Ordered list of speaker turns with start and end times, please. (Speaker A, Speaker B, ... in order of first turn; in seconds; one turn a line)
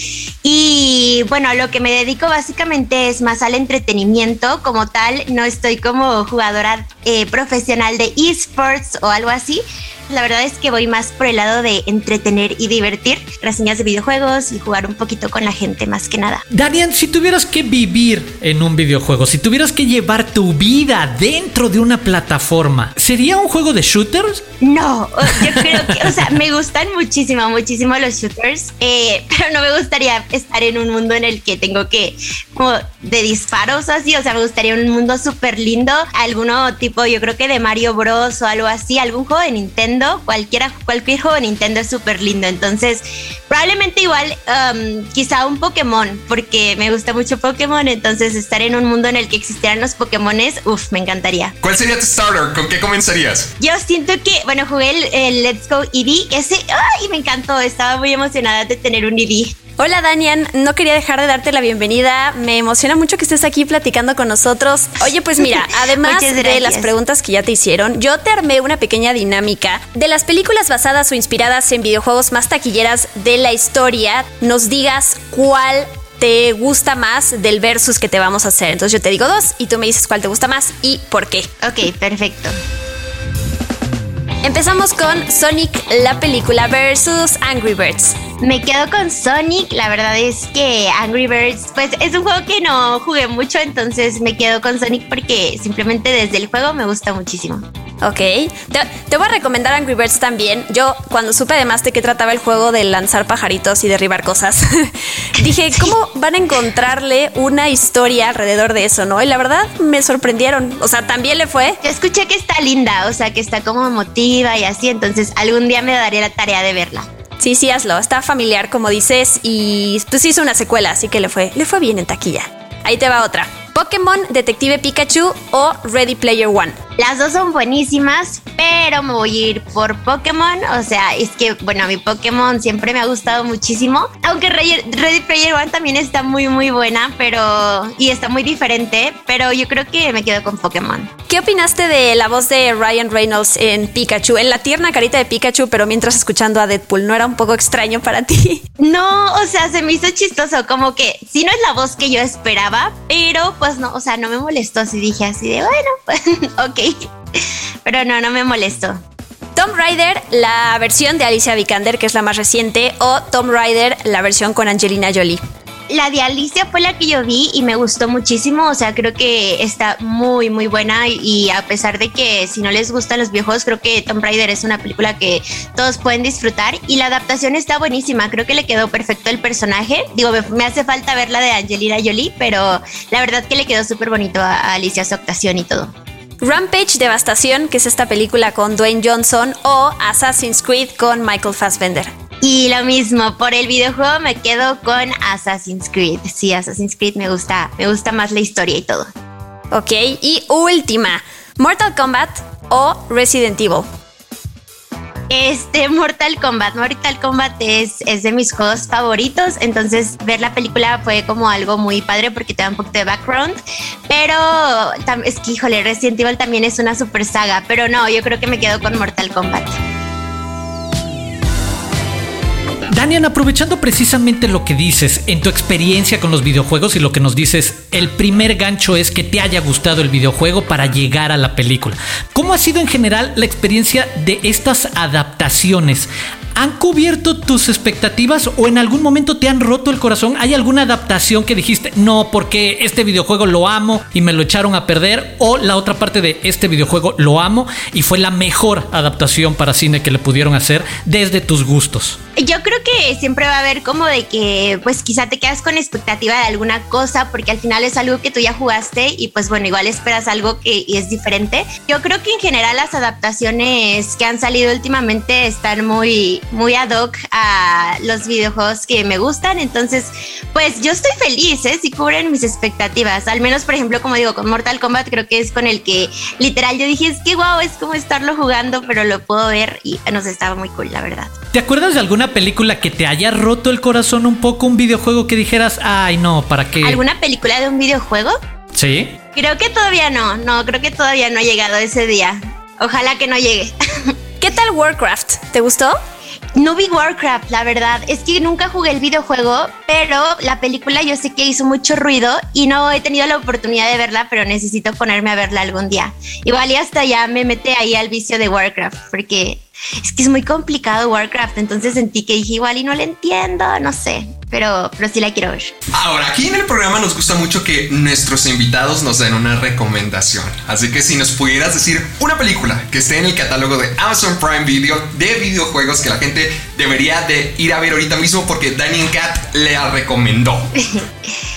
Speaker A: 0.4-16.4
Speaker B: 16.5-24.4
Speaker A: 24.6-51.5
Speaker B: 25.5-26.2
Speaker C: 51.6-53.5
Speaker A: 53.6-59.6
Speaker D: 59.8-81.5
Speaker A: 66.0-66.9
Speaker A: 81.6-82.6
Speaker D: 84.4-88.2
Speaker A: 88.4-97.7
Speaker D: 98.0-111.8
Speaker A: 111.8-117.1
Speaker D: 117.4-126.8
Speaker A: 127.0-141.1
Speaker D: 141.3-148.6
Speaker A: 148.8-159.0
Speaker D: 159.6-165.4
Speaker A: 165.9-185.9
Speaker D: 186.4-192.1
Speaker A: 192.4-199.1
Speaker D: 199.7-203.9
Speaker A: 205.3-213.6
Speaker A: 214.1-219.8
Speaker B: 222.9-252.2
Speaker A: 252.4-281.3
Speaker B: 281.5-287.0
Speaker A: 286.8-288.4
Speaker B: 288.7-289.1
Speaker A: 289.3-294.1
Speaker D: 294.4-296.0
Speaker A: 296.6-315.7
Speaker C: 315.9-330.7
Speaker A: 330.8-331.1